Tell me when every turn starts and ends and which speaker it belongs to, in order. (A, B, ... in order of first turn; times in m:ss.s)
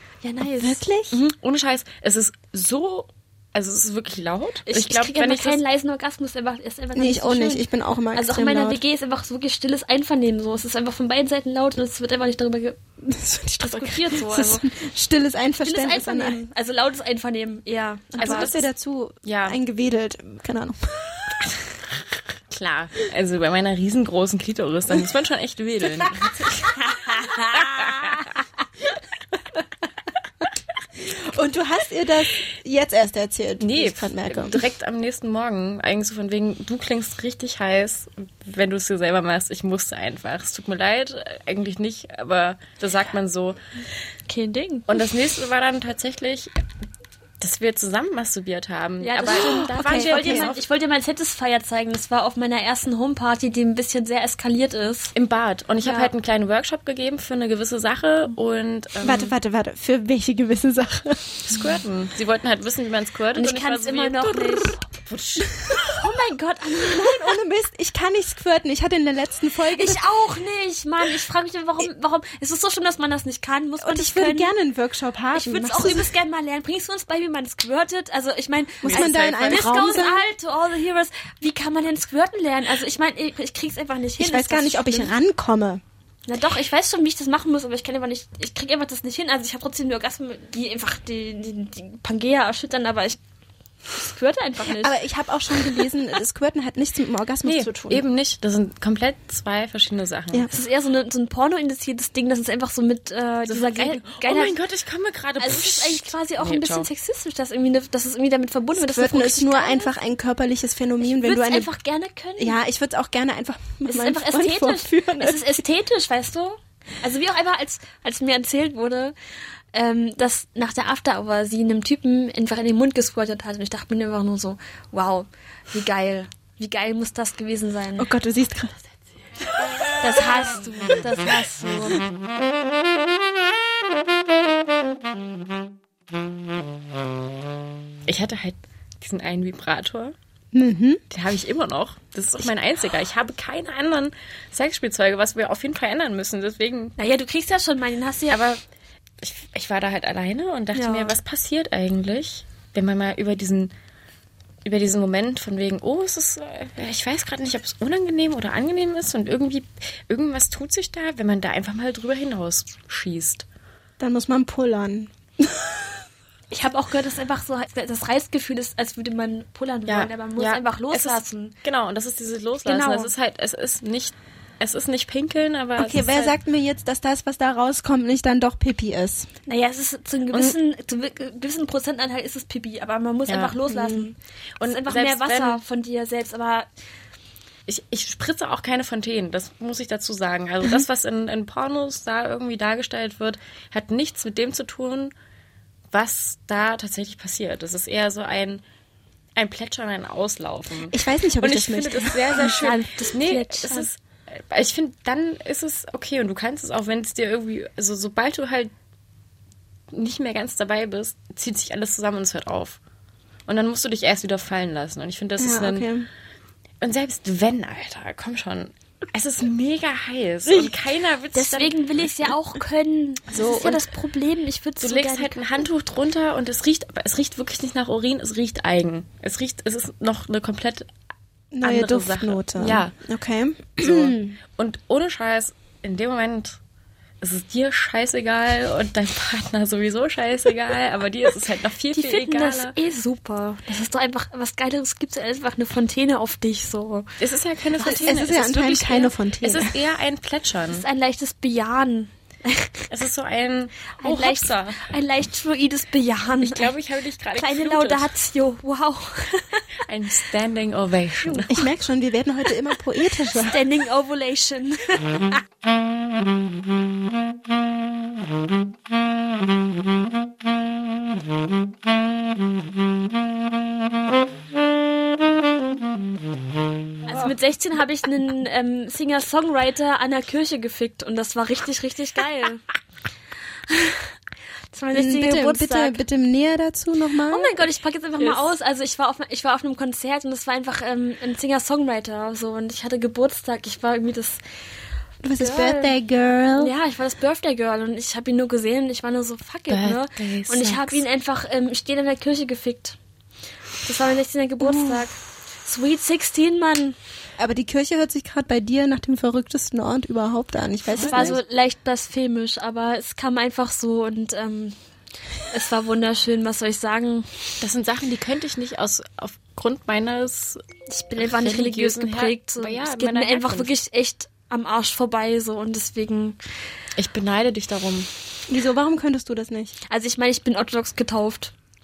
0:00.2-0:00.8 A
0:00.6-0:01.2 B
0:01.1-0:05.6 C
0:04.7-0:12.8 A
0:07.0-0:08.8 B
0:13.0-0:16.4 B
0:13.6-0:14.7 A
0:15.6-0:18.5 A
0:18.2-0:21.3 B
0:18.2-0:18.7 C
0:19.2-0:19.6 C
0:22.5-0:26.7 C
0:26.8-0:28.2 A
0:27.6-0:28.3 C
0:31.0-0:34.6 B
0:33.6-0:43.6 C
0:44.3-0:45.0 A
0:44.9-0:46.5 C
0:47.4-0:50.6 C
0:49.0-0:55.1 A
0:49.3-0:50.5 B
0:55.2-0:59.3 C
0:55.8-0:56.1 A
0:59.0-1:01.4 B
1:01.4-1:05.7 C
1:03.3-1:04.8 A
1:05.8-1:07.4 A
1:06.8-1:10.0 B
1:09.7-1:14.5 A
1:13.8-1:16.1 B
1:15.3-1:25.1 A
1:18.8-1:20.2 B
1:18.8-1:19.8 C
1:24.2-1:25.8 B
1:26.3-1:33.2 A
1:33.9-1:35.0 A
1:34.7-1:38.0 B
1:37.4-1:40.5 C
1:40.5-1:44.6 A
1:43.5-1:46.9 C
1:45.4-1:49.9 A
1:48.8-1:51.7 B
1:51.0-1:52.6 A
1:52.4-1:55.6 B
1:53.9-1:59.2 A
1:59.7-2:08.1 A
2:08.0-2:08.8 B
2:10.0-2:12.0 A
2:18.1-2:20.2 C
2:20.5-2:21.0 B
2:21.1-2:27.0 C
2:27.0-2:28.4 A
2:28.3-2:28.6 C
2:29.2-2:33.7 C
2:30.7-2:31.2 A
2:34.6-2:43.4 C
2:44.0-2:45.8 B
2:46.5-2:51.6 A
2:49.9-2:56.3 C
2:52.6-2:53.1 A
2:55.8-2:59.3 B
2:59.5-3:06.7 A
3:03.3-3:03.6 C
3:03.7-3:04.0 B
3:04.6-3:05.6 C
3:07.7-3:15.1 C
3:15.9-3:18.6 C
3:19.4-3:28.7 C
3:20.9-3:22.4 B
3:22.4-3:23.9 A
3:29.9-3:32.8 C
3:33.5-3:35.9 C
3:35.4-3:36.1 B
3:36.8-3:41.8 C
3:41.3-3:45.4 A
3:43.3-3:43.8 C
3:44.8-3:50.9 C
3:51.5-3:54.4 B
3:51.6-3:52.9 C
3:53.8-3:56.6 C
3:57.2-4:02.8 C
4:01.9-4:07.2 A
4:07.2-4:10.8 C
4:07.8-4:08.2 A
4:07.8-4:09.8 B
4:10.7-4:12.9 A
4:12.9-4:14.9 C
4:14.0-4:16.7 A
4:16.4-4:18.1 C
4:17.4-4:19.7 A
4:19.9-4:21.6 C
4:21.2-4:21.7 A
4:21.5-4:23.6 B
4:23.2-4:25.4 A
4:37.1-4:42.6 A
4:43.7-4:44.1 A
4:44.7-4:46.0 A
4:44.9-4:47.6 B
4:47.3-4:54.4 A
4:55.2-4:56.7 B
4:55.4-4:56.0 A
4:56.6-5:03.0 A
4:59.7-5:01.0 C
5:03.8-5:07.0 A
5:04.6-5:05.0 B
5:07.4-5:11.4 B
5:10.9-5:11.4 C
5:11.0-5:14.8 A
5:15.5-5:17.3 A
5:17.6-5:20.6 C
5:20.9-5:26.4 A
5:21.2-5:23.7 C
5:27.0-5:28.1 C
5:28.5-5:29.8 B
5:29.9-5:31.5 A